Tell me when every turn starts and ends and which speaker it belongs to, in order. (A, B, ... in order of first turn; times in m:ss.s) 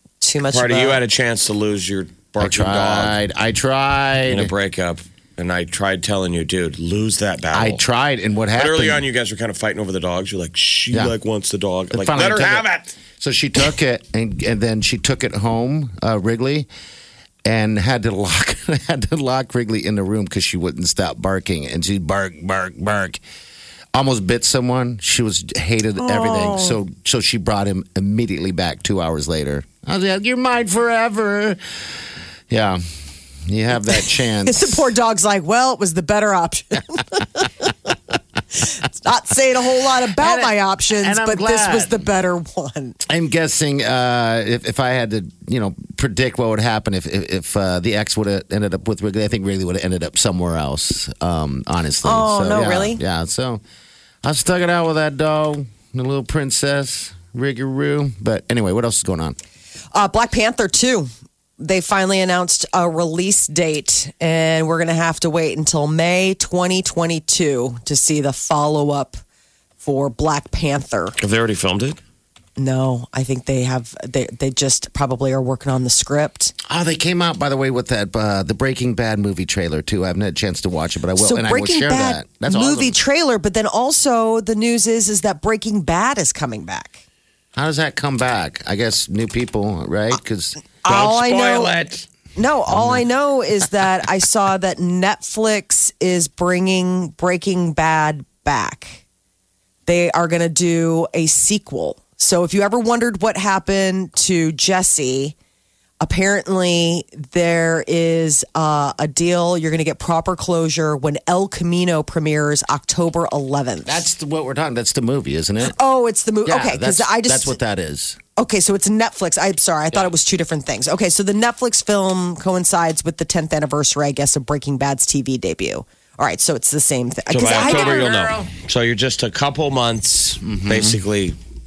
0:00.2-0:01.0 A
0:00.5-0:03.2 B
0:02.4-0:04.5 C
0:04.3-0:07.8 B
0:07.5-0:09.0 C
0:08.6-0:12.9 B
0:11.9-0:12.6 C
0:13.2-0:16.7 C
0:17.4-0:23.2 C
0:23.9-0:31.6 C
0:26.0-0:26.8 A
0:32.5-0:32.8 C
0:33.4-0:34.8 C
0:33.9-0:37.7 A
0:38.6-0:43.0 A
0:40.2-0:42.0 C
0:43.0-0:53.6 C
0:52.0-0:53.0 A
0:54.2-0:59.4 C
0:59.9-1:09.2 A
1:09.8-1:11.1 A
1:11.2-1:12.0 B
1:12.6-1:16.5 A
1:16.7-1:23.0 C
1:21.2-1:27.0 A
1:27.5-1:30.6 C
1:30.8-1:31.7 A
1:30.8-1:32.0 B
1:32.4-1:39.0 A
1:32.7-1:33.0 C
1:39.9-1:45.3 A
1:46.0-1:54.0 A
1:53.8-1:55.8 C
1:55.6-1:57.6 A
1:56.4-1:58.2 C
1:58.4-2:08.1 A
2:07.3-2:11.4 B
2:07.4-2:08.5 C
2:10.4-2:11.0 C